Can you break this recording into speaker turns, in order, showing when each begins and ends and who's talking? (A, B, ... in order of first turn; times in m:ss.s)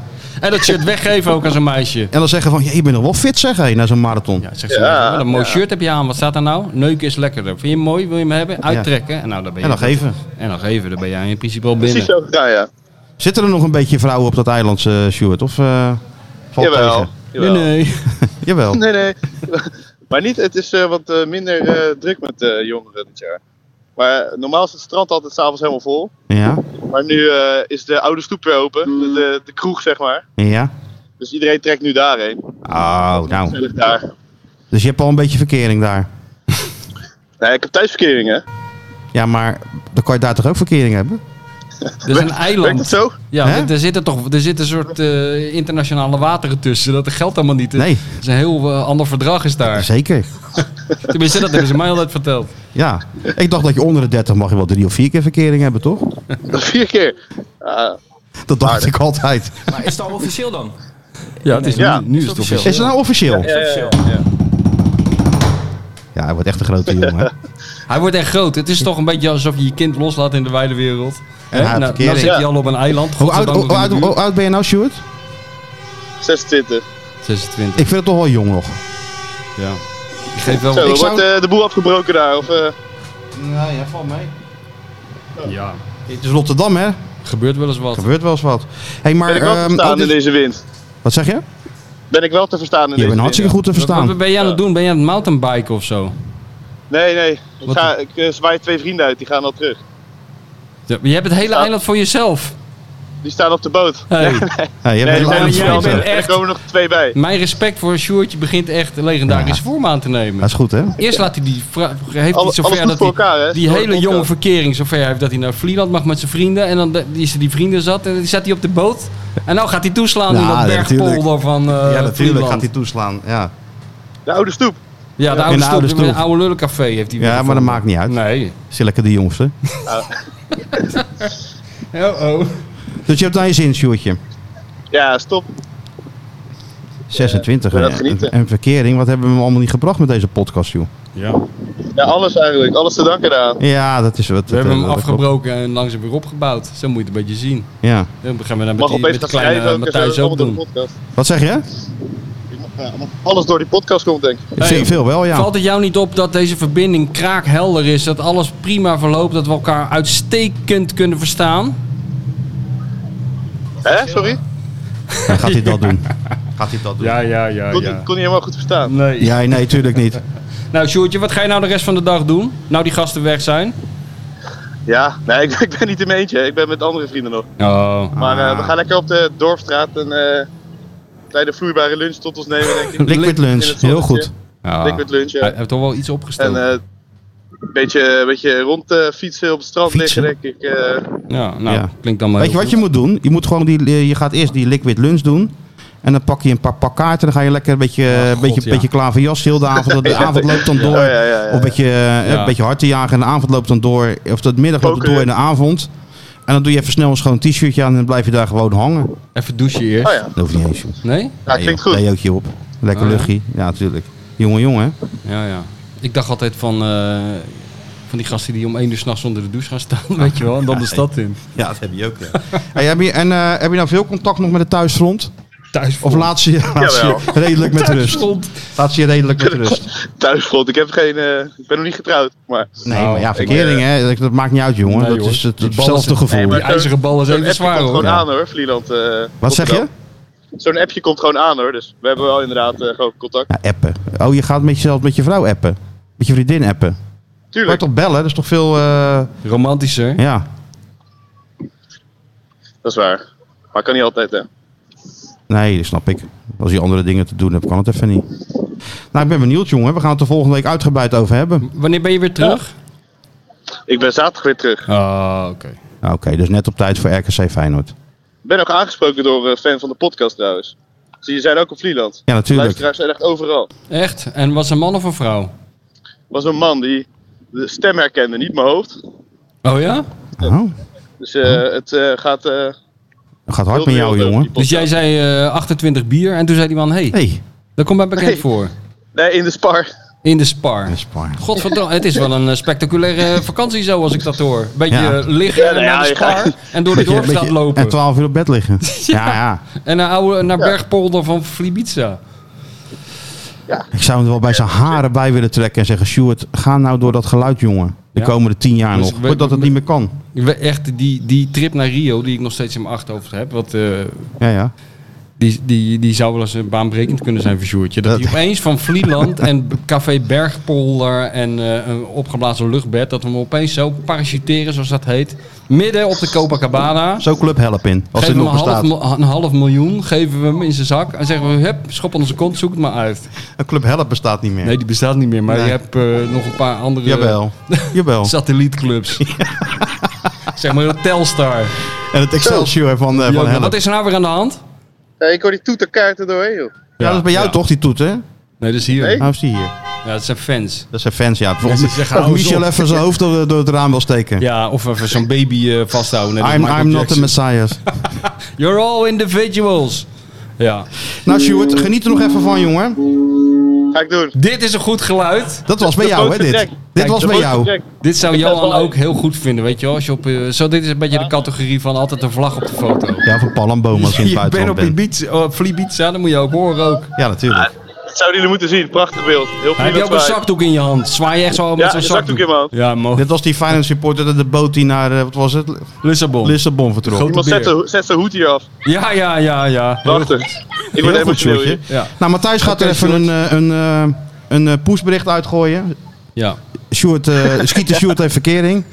0:00.4-0:02.1 A
0:02.1-0:04.4 B
0:04.4-0:12.1 A
0:04.7-0:05.6 C
0:09.6-0:10.2 B
0:11.8-0:12.7 C
0:13.2-0:16.0 B
0:16.5-0:17.1 B
0:16.6-0:17.7 C
0:17.4-0:18.1 A
0:18.2-0:18.8 B
0:18.7-0:23.4 C
0:24.0-0:26.1 C
0:26.3-0:26.6 B
0:26.8-0:30.2 C
0:30.4-0:30.7 B
0:31.2-0:32.4 C
0:32.6-0:33.6 B
0:33.4-0:34.1 C
0:34.7-0:36.1 B
0:37.4-0:38.4 C
0:39.1-0:41.2 B
0:42.0-0:43.1 C
0:42.0-0:49.9 A
0:43.4-0:43.7 B
0:47.7-0:48.0 B
0:49.7-0:50.3 B
0:51.0-0:52.5 A
0:52.7-0:56.1 B
0:56.5-0:58.0 C
0:58.5-0:59.8 B
0:58.6-0:58.9 C
0:59.7-1:00.7 D
1:01.4-1:02.9 A
1:01.5-1:04.1 D
1:01.8-1:02.0 C
1:02.6-1:03.5 B
1:03.4-1:04.2 C
1:06.1-1:07.3 B
1:07.9-1:14.2 A
1:11.5-1:12.4 B
1:13.2-1:15.0 B
1:16.2-1:16.8 C
1:17.2-1:17.9 A
1:17.8-1:18.8 B
1:19.6-1:19.8 A
1:20.3-1:21.0 A
1:20.5-1:22.7 C
1:20.8-1:21.3 B
1:23.3-1:24.3 B
1:25.4-1:25.8 A
1:26.1-1:27.0 B
1:27.2-1:28.1 A
1:27.9-1:30.2 B
1:29.3-1:30.6 C
1:31.0-1:31.4 B
1:32.1-1:33.6 C
1:33.0-1:34.1 B
1:33.8-1:36.1 A
1:36.9-1:39.8 C
1:40.9-1:42.6 A
1:43.2-1:47.2 C
1:44.1-1:44.5 A
1:44.8-1:46.1 B
1:45.0-1:46.4 A
1:47.1-2:02.7 A
1:49.3-1:49.6 B
1:50.4-1:51.0 B
1:52.3-1:54.3 C
2:00.3-2:03.5 B
2:04.2-2:05.5 C
2:05.2-2:08.6 A
2:05.4-2:06.2 B
2:07.2-2:08.2 B
2:08.7-2:09.5 B
2:09.8-2:10.1 C
2:10.7-2:11.3 A
2:11.9-2:12.6 A
2:13.0-2:14.2 B
2:14.9-2:15.5 C
2:17.1-2:20.9 B
2:17.2-2:18.3 C
2:21.1-2:21.4 A
2:21.9-2:23.6 C
2:23.6-2:25.2 B
2:24.5-2:27.7 A
2:27.8-2:28.1 B
2:28.2-2:30.6 A
2:28.8-2:31.0 C
2:31.2-2:31.6 B
2:32.5-2:34.5 C
2:34.6-2:35.5 B
2:34.6-2:41.8 A
2:43.8-2:44.4 C
2:45.1-2:46.0 A
2:45.2-2:47.1 B
2:47.0-2:48.1 A
2:47.7-2:48.9 C
2:48.8-2:49.4 A
2:49.2-2:50.2 B
2:50.7-2:53.8 A
2:54.9-2:57.4 C
2:57.6-2:58.2 A
2:58.1-2:58.8 B
2:58.2-3:00.5 C
3:01.3-3:04.3 C
3:03.0-3:03.4 A
3:03.0-3:04.3 B
3:04.6-3:06.6 A
3:04.8-3:05.5 C
3:06.4-3:06.8 C
3:07.6-3:11.2 C
3:09.9-3:10.3 B
3:11.3-3:12.8 A
3:11.7-3:25.9 B
3:18.1-3:18.9 A
3:19.9-3:21.8 C
3:20.7-3:21.1 A
3:22.2-3:22.5 A
3:24.8-3:25.2 C
3:26.5-3:29.1 B
3:29.3-3:30.2 A
3:30.0-3:30.3 C
3:30.3-3:34.9 B
3:31.0-3:31.4 A
3:31.4-3:32.0 C
3:32.9-3:33.3 A
3:35.2-3:41.4 A
3:40.2-3:45.3 B
3:42.3-3:42.6 A
3:45.7-3:46.3 A
3:46.0-3:49.9 B
3:46.8-3:47.3 C
3:47.4-3:48.6 A
3:49.4-3:53.8 C
3:52.8-3:56.6 B
3:52.9-3:53.5 A
3:54.8-3:58.1 A
3:56.3-3:59.9 C
3:59.4-3:59.9 B
4:00.6-4:03.5 C
4:03.5-4:07.0 B
4:07.5-4:07.8 C
4:07.6-4:09.3 B
4:09.4-4:10.2 A
4:10.2-4:10.4 B
4:12.8-4:14.5 C
4:15.5-4:18.2 B
4:19.1-4:21.7 B
4:21.6-4:22.7 A
4:23.9-4:24.9 C
4:24.9-4:25.8 A
4:26.0-4:27.9 B
4:28.4-4:33.7 C
4:32.3-4:32.8 B
4:33.9-4:35.5 A
4:36.3-4:38.9 C
4:39.6-4:40.1 A
4:40.4-4:40.7 B
4:41.2-4:42.7 C
4:43.5-4:44.5 B
4:43.7-4:44.9 C
4:44.6-4:47.2 A
4:47.1-4:47.4 B
4:47.8-4:48.7 A
4:49.1-4:49.9 C
4:50.2-4:58.0 A
4:50.9-4:51.6 B
4:54.9-4:55.2 B
4:55.5-4:56.5 C
4:56.9-4:59.6 B
4:58.8-5:02.2 A
5:03.9-5:10.1 B
5:08.9-5:09.7 A
5:10.3-5:14.3 A
5:14.4-5:14.7 B
5:15.4-5:27.2 A
5:18.0-5:18.4 B
5:27.2-5:28.9 B
5:28.2-5:33.3 A
5:33.6-5:34.8 B
5:34.6-5:39.3 A
5:35.5-5:35.8 B
5:37.0-5:38.3 B
5:39.2-5:40.1 B
5:40.4-5:41.8 A
5:41.9-5:43.8 B
5:42.4-5:42.7 C
5:43.2-5:44.6 A
5:45.2-5:46.7 C
5:47.0-5:47.6 A
5:47.0-5:48.2 B
5:48.6-5:49.2 A
5:49.0-5:49.2 C
5:49.2-5:49.7 B
5:50.0-5:50.9 A
5:50.9-5:54.4 B
5:51.6-5:53.0 A
5:54.4-5:57.3 A
5:56.4-5:58.0 B
5:57.9-6:00.1 A
6:00.6-6:00.9 A
6:01.1-6:03.2 B
6:03.9-6:04.3 C
6:04.3-6:05.7 A
6:05.7-6:07.7 B
6:05.8-6:08.9 C
6:07.0-6:13.3 A
6:13.2-6:15.0 B
6:13.9-6:17.1 A
6:17.2-6:17.7 B
6:17.6-6:20.4 C
6:19.8-6:23.3 A
6:21.8-6:22.7 C
6:23.1-6:27.4 B
6:26.0-6:27.7 A
6:27.2-6:28.7 C
6:28.8-6:30.6 A
6:30.0-6:31.8 C
6:31.0-6:35.9 B
6:31.9-6:33.3 A
6:36.9-6:38.8 B